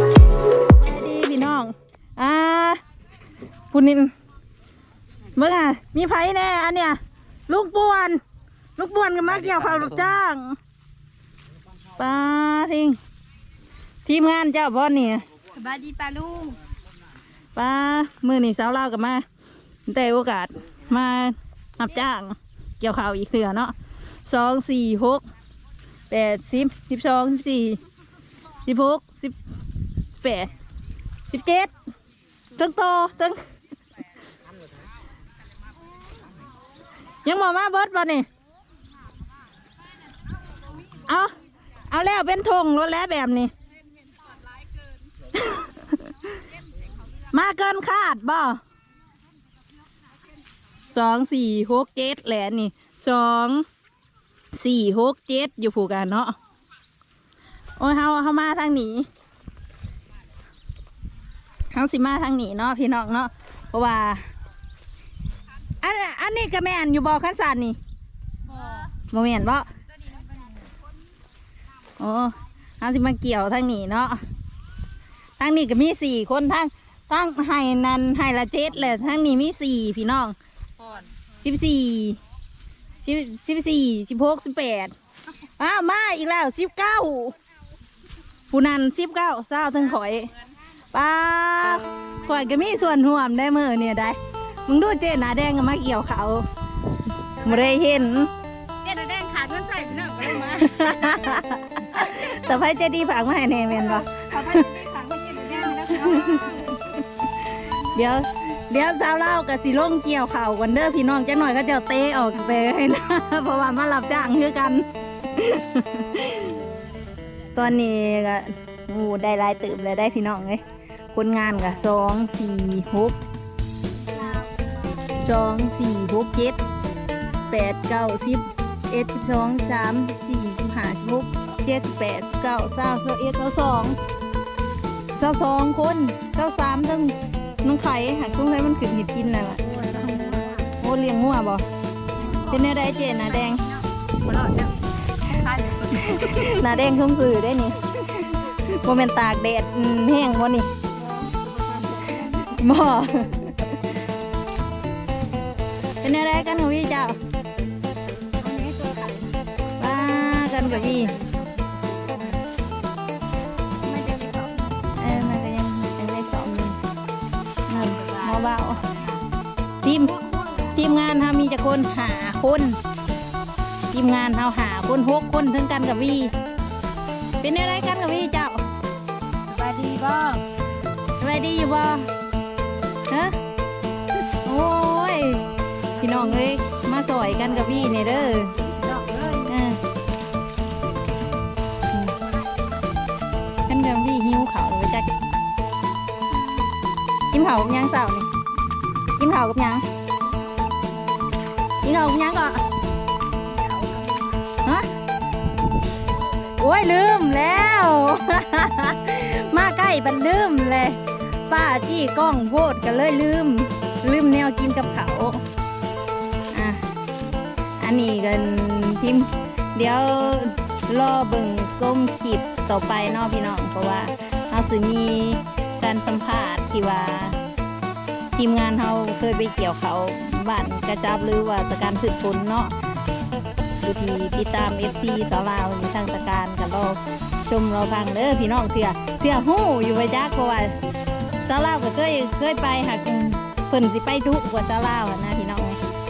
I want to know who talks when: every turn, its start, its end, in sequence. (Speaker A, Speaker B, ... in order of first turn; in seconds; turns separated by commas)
Speaker A: 0.8-2.8, Speaker A: 3.7-4.1, Speaker A: 5.3-8.2, Speaker A: 8.8-10.6, Speaker A: 12.0-13.0, Speaker A: 14.0-15.2, Speaker B: 15.6-16.6, Speaker A: 17.6-19.2, Speaker A: 19.9-23.7, Speaker A: 24.3-25.2, Speaker A: 26.1-27.8, Speaker A: 28.6-29.4, Speaker A: 30.2-30.5, Speaker A: 31.3-31.7, Speaker A: 32.5-33.4, Speaker A: 37.2-38.2, Speaker A: 41.0-41.3, Speaker A: 41.9-43.5, Speaker A: 45.4-45.9, Speaker A: 47.3-48.6, Speaker A: 50.9-53.6, Speaker A: 54.5-56.3, Speaker A: 57.8-59.1, Speaker A: 61.7-64.2, Speaker A: 65.8-67.8, Speaker B: 68.5-68.8, Speaker A: 69.1-69.7, Speaker A: 72.0-74.2, Speaker A: 75.4-80.3, Speaker A: 81.4-82.2, Speaker A: 83.0-84.9, Speaker A: 85.6-87.3, Speaker A: 88.5-90.3, Speaker A: 90.9-96.4, Speaker A: 97.4-98.3, Speaker B: 97.4-97.7, Speaker B: 98.8-101.2, Speaker A: 100.4-104.7, Speaker B: 103.8-106.7, Speaker A: 105.8-116.6, Speaker B: 107.7-108.0, Speaker A: 117.5-120.6, Speaker A: 121.1-123.2, Speaker B: 124.0-124.9, Speaker A: 125.2-126.6, Speaker A: 127.5-134.0, Speaker A: 135.1-139.6, Speaker B: 139.6-140.7, Speaker A: 140.8-141.6, Speaker B: 142.1-146.7, Speaker A: 142.5-143.6, Speaker A: 146.0-150.7, Speaker B: 150.9-152.5, Speaker A: 152.5-153.7, Speaker A: 156.0-157.2, Speaker B: 158.4-159.4, Speaker A: 159.8-161.1, Speaker B: 160.5-162.4, Speaker B: 163.8-165.4, Speaker A: 164.9-166.8, Speaker A: 167.7-168.8, Speaker B: 167.7-169.2, Speaker A: 169.8-170.2, Speaker B: 170.1-170.8, Speaker A: 170.7-172.8, Speaker A: 173.9-176.3, Speaker A: 177.4-178.6, Speaker B: 179.5-180.4, Speaker A: 181.2-182.1, Speaker A: 183.1-183.3, Speaker A: 184.4-185.4, Speaker A: 186.0-188.6, Speaker B: 187.4-189.5, Speaker A: 189.4-189.8, Speaker A: 193.7-195.1, Speaker B: 196.3-196.7, Speaker A: 197.3-198.3, Speaker A: 199.2-199.8, Speaker A: 201.8-202.6, Speaker B: 203.4-204.3, Speaker A: 206.5-215.4, Speaker A: 216.5-216.8, Speaker A: 217.8-227.4, Speaker A: 228.3-232.7, Speaker A: 233.8-240.7, Speaker A: 241.4-245.8